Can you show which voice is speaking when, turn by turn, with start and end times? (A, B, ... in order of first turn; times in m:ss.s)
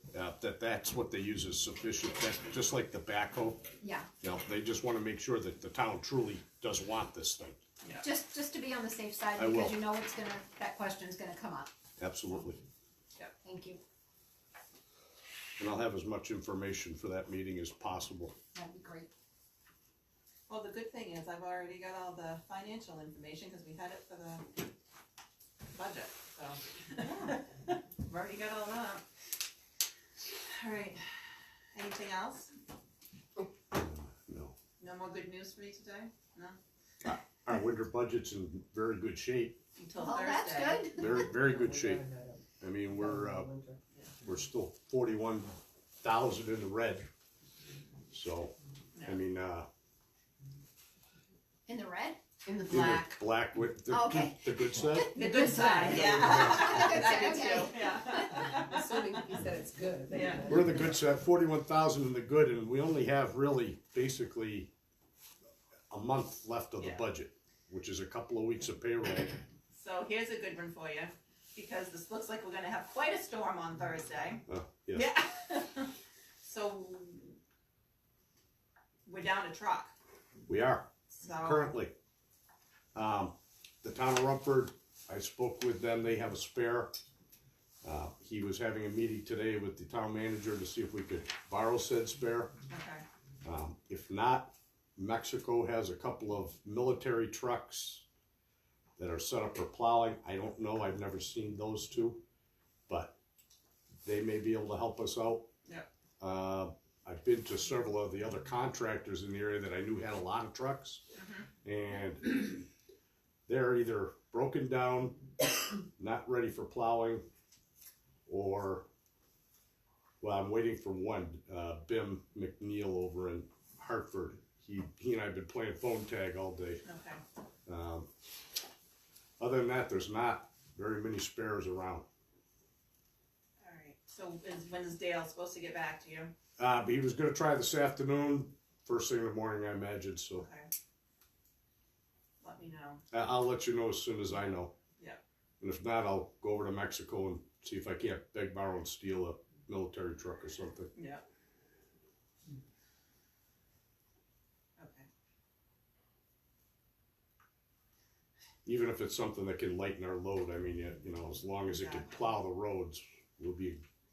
0:00.1-0:03.6 A
0:03.8-0:04.1 B
0:04.2-0:07.6 A
0:08.0-0:11.7 B
0:09.4-0:09.8 A
0:12.0-0:12.6 A
0:13.4-0:13.8 B
0:15.6-0:18.3 A
0:18.5-0:19.1 B
0:20.5-0:24.5 C
0:25.7-0:29.0 C
0:30.5-0:31.1 C
0:31.8-0:32.5 C
0:33.7-0:34.5 A
0:34.8-0:36.6 C
0:37.0-0:39.6 A
0:39.8-0:41.0 C
0:40.0-0:41.3 B
0:40.9-0:42.0 A
0:41.1-0:43.8 D
0:42.6-0:43.5 A
0:44.2-0:45.5 A
0:46.0-0:47.1 A
0:48.1-0:49.7 A
0:51.7-0:52.2 B
0:52.4-0:53.3 D
0:52.6-0:55.2 A
0:53.9-0:58.4 B
0:55.1-0:59.3 C
0:55.9-0:57.1 A
0:58.2-1:00.9 D
1:00.1-1:00.6 C
1:00.5-1:04.7 A
1:05.9-1:09.4 A
1:06.8-1:07.0 C
1:09.7-1:15.9 C
1:14.5-1:15.1 A
1:16.4-1:17.4 C
1:19.1-1:19.9 C
1:20.5-1:21.9 A
1:21.2-1:21.7 C
1:23.0-1:26.9 A
1:27.8-1:32.5 A
1:32.7-1:33.0 C
1:33.4-1:38.0 A
1:39.0-1:42.2 A
1:42.9-1:43.2 A
1:44.0-1:45.5 A
1:46.2-1:51.0 A
1:51.1-1:51.5 C
1:51.6-1:52.7 A
1:53.5-1:55.2 A
1:56.0-1:57.2 A
1:58.3-1:58.8 A
2:00.2-2:06.8 A
2:06.8-2:07.2 C
2:07.7-2:08.1 A
2:09.4-2:12.0 A
2:13.6-2:16.3 C
2:16.6-2:20.5 A
2:20.4-2:20.7 C
2:22.4-2:23.0 C
2:23.1-2:24.7 A
2:25.6-2:30.9 A
2:31.0-2:31.2 C
2:34.8-2:35.1 C
2:38.7-2:43.8 A
2:41.7-2:42.2 C